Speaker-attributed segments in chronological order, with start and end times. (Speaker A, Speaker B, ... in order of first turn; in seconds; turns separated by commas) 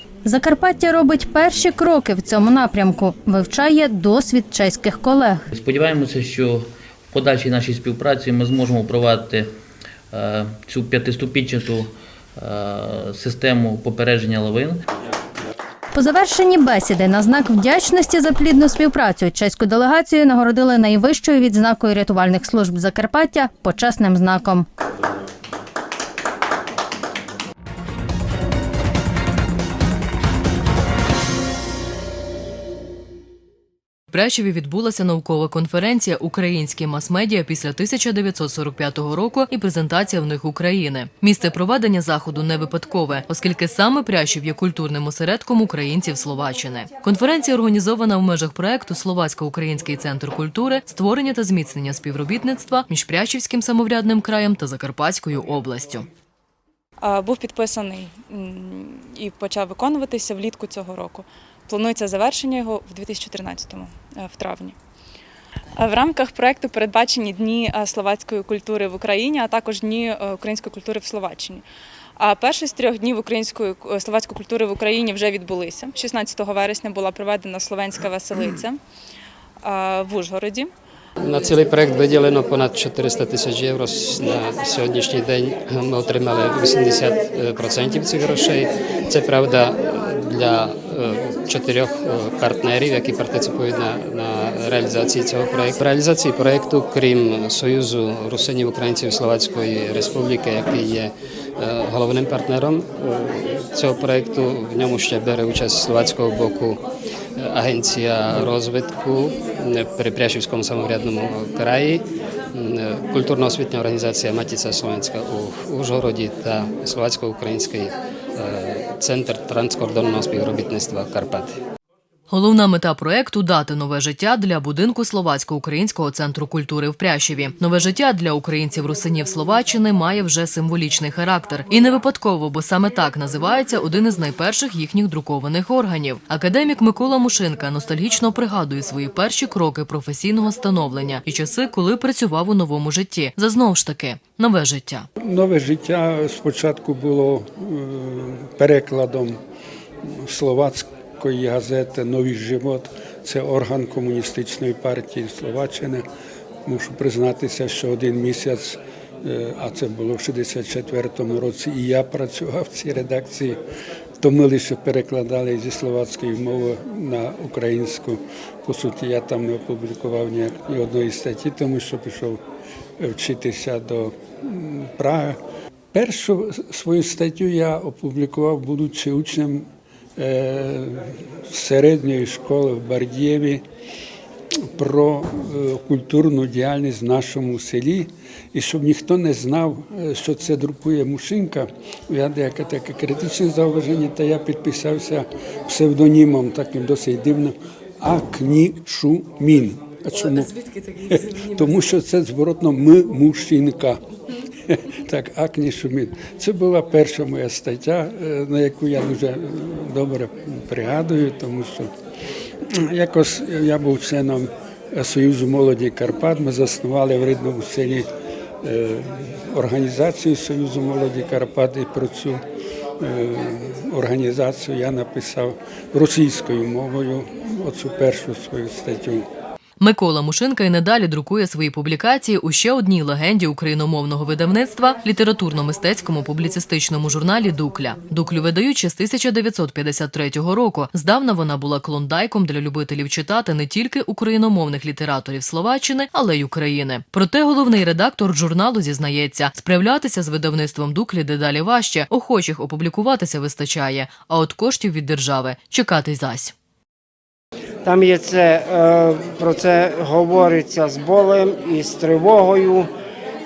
Speaker A: 0.3-5.5, Speaker B: 5.5-9.5, Speaker B: 10.1-14.8, Speaker A: 15.9-24.7, Speaker C: 34.1-56.1, Speaker D: 57.0-64.8, Speaker D: 65.8-71.7, Speaker D: 72.2-78.8, Speaker D: 79.6-80.7, Speaker E: 81.2-106.8, Speaker E: 107.4-121.6, Speaker C: 122.3-145.1, Speaker F: 145.2-149.4, Speaker F: 150.1-156.0, Speaker F: 156.7-163.6, Speaker F: 164.2-172.4, Speaker F: 173.0-175.4, Speaker F: 175.9-183.6, Speaker F: 184.8-200.6, Speaker F: 201.1-204.0, Speaker F: 204.7-211.9, Speaker F: 212.7-218.1, Speaker F: 218.6-222.4, Speaker F: 223.0-229.3, Speaker C: 229.8-256.5, Speaker G: 257.8-262.9